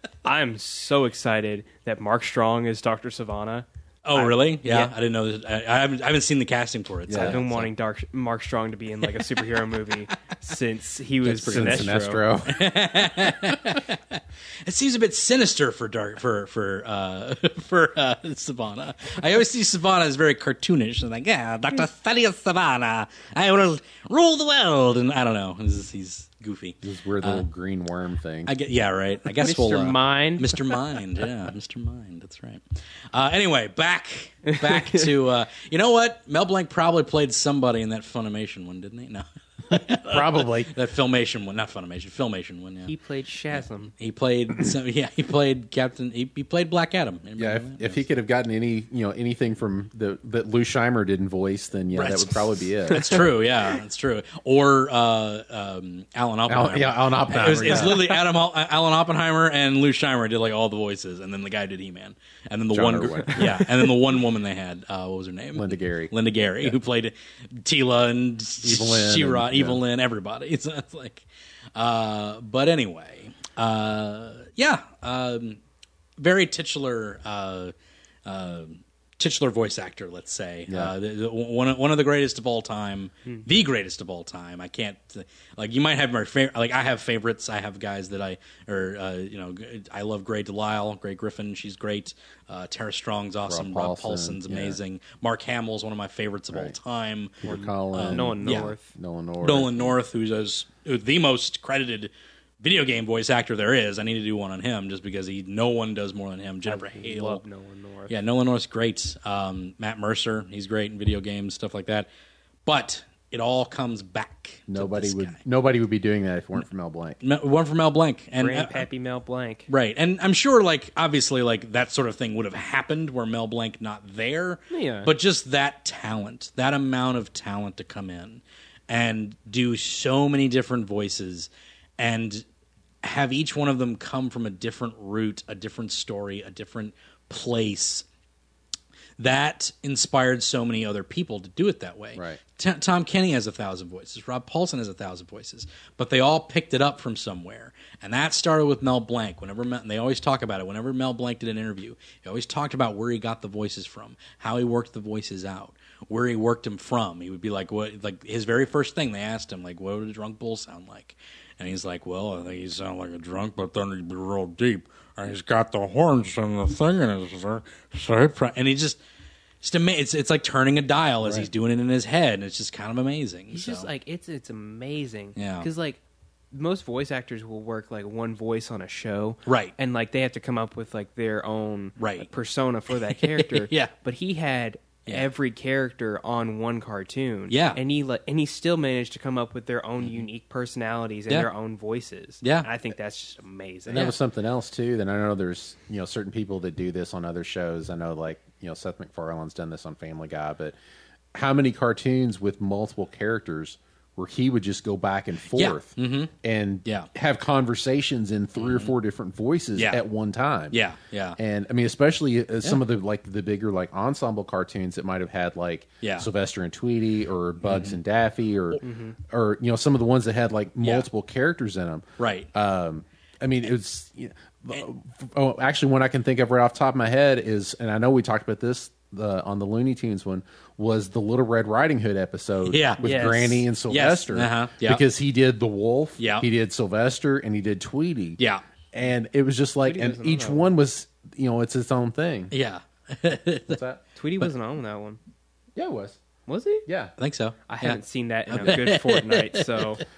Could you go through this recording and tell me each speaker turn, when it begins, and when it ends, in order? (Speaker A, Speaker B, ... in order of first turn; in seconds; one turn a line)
Speaker A: 0.2-4.9
Speaker B: 4.0-7.7
Speaker C: 7.1-7.4
Speaker A: 7.2-12.2
Speaker C: 11.3-12.6
Speaker B: 11.4-11.9
Speaker B: 12.5-27.4
Speaker C: 26.8-28.5
Speaker B: 28.5-42.9
Speaker A: 29.4-30.6
Speaker A: 34.5-35.0
Speaker C: 40.0-40.7
Speaker A: 42.9-43.9
Speaker B: 43.5-48.0
Speaker C: 47.4-53.3
Speaker B: 52.0-71.2
Speaker C: 56.5-58.0
Speaker C: 62.7-63.7
Speaker C: 65.5-66.8
Speaker C: 68.6-69.8
Speaker B: 71.8-75.6
Speaker B: 76.2-77.7
Speaker B: 78.2-98.7
Speaker C: 93.5-94.8
Speaker C: 97.4-100.0
Speaker A: 97.5-98.9
Speaker B: 99.4-107.4
Speaker A: 106.7-108.1
Speaker B: 108.1-112.1
Speaker B: 112.7-115.4
Speaker C: 114.7-117.2
Speaker B: 117.2-118.9
Speaker A: 118.4-119.7
Speaker B: 119.7-132.4
Speaker A: 124.7-125.1
Speaker B: 133.0-138.1
Speaker B: 139.2-169.0
Speaker C: 142.2-142.4
Speaker B: 169.6-173.9
Speaker A: 173.5-176.0
Speaker B: 175.4-175.7
Speaker A: 176.5-194.2
Speaker B: 179.4-179.7
Speaker B: 182.0-182.3
Speaker B: 182.9-183.9
Speaker B: 187.5-187.8
Speaker B: 192.4-192.7
Speaker C: 193.9-200.8
Speaker C: 201.3-210.8
Speaker B: 205.5-206.3
Speaker B: 208.6-208.9
Speaker B: 209.8-210.0
Speaker B: 210.7-211.4
Speaker C: 211.4-238.4
Speaker B: 216.0-216.3
Speaker B: 217.7-218.0
Speaker A: 218.8-219.2
Speaker B: 220.8-221.1
Speaker B: 222.2-222.5
Speaker B: 232.7-235.0
Speaker A: 233.0-233.6
Speaker B: 236.2-236.5
Speaker C: 238.9-242.5
Speaker A: 239.8-240.7
Speaker B: 242.5-243.8
Speaker C: 243.7-244.0
Speaker A: 244.2-245.2
Speaker C: 245.8-246.2
Speaker A: 246.5-246.8
Speaker C: 246.9-247.1
Speaker B: 247.2-248.0
Speaker A: 247.7-250.0
Speaker B: 248.5-249.9